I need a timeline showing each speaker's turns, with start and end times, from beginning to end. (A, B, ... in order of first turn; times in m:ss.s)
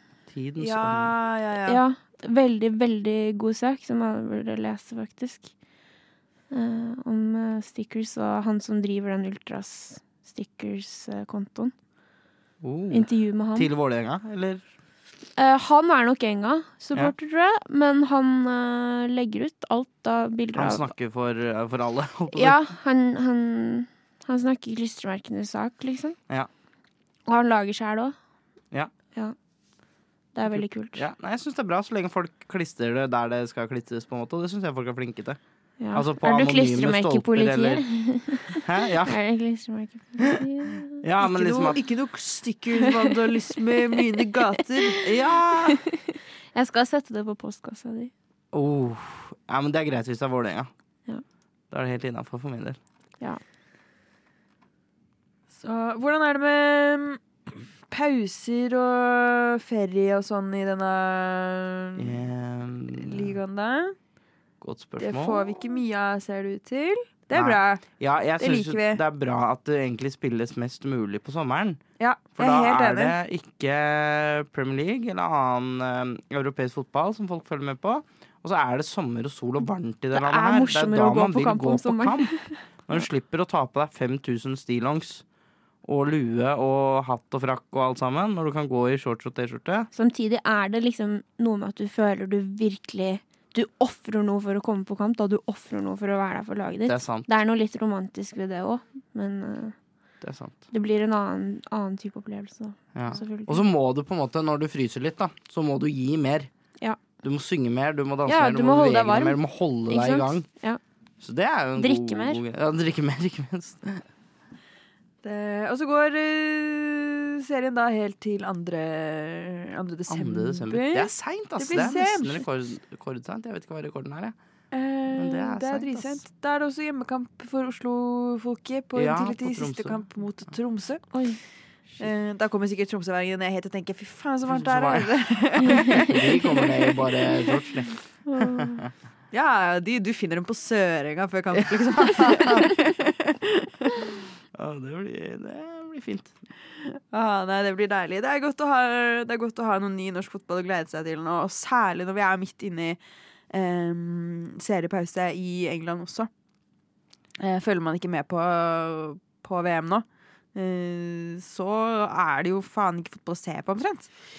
0:00.3-0:01.1 A
0:00.6-0:01.8 B
0:01.7-0:05.5 C
0:06.5-0:11.7 C
0:12.6-0:14.6 A
0:12.9-0:13.7 C
0:15.4-0:20.8 C
0:20.5-0:22.6 A
0:22.3-0:26.2 C
0:27.3-0:28.2 C
0:30.3-0:31.0 C
0:30.5-0:35.4 A
0:35.8-0:41.0 C
0:35.9-0:37.8 A
0:38.5-0:39.2 A
0:41.0-0:41.8 A
0:41.2-0:45.3 B
0:45.0-0:45.8 A
0:45.6-0:48.1 C
0:48.5-0:50.7 A
0:51.7-0:52.8 A
0:55.5-1:02.2 B
1:02.0-1:03.4 A
1:02.9-1:03.9 B
1:04.6-1:05.5 A
1:05.0-1:07.8 B
1:07.3-1:11.8 A
1:08.4-1:09.0 B
1:12.0-1:13.1 B
1:12.4-1:25.2 A
1:20.1-1:22.5 C
1:25.8-1:29.9 A
1:29.9-1:39.8 C
1:36.9-1:37.3 A
1:40.2-1:40.6 A
1:40.7-1:43.6 C
1:42.9-1:46.5 A
1:47.2-1:50.5 A
1:48.2-1:50.8 C
1:51.2-1:54.0 A
1:51.8-1:52.4 C
1:55.2-2:02.4 B
2:00.1-2:04.4 A
2:04.7-2:11.2 B
2:05.1-2:06.2 A
2:09.0-2:10.0 A
2:11.1-2:11.4 C
2:12.0-2:16.3 B
2:14.5-2:15.1 A
2:15.6-2:16.4 C
2:15.7-2:18.9 A
2:18.2-2:18.8 C
2:19.3-2:24.1 B
2:22.0-2:22.6 A
2:24.5-2:26.3 A
2:26.9-2:33.0 B
2:33.5-2:36.3 B
2:37.4-2:44.1 B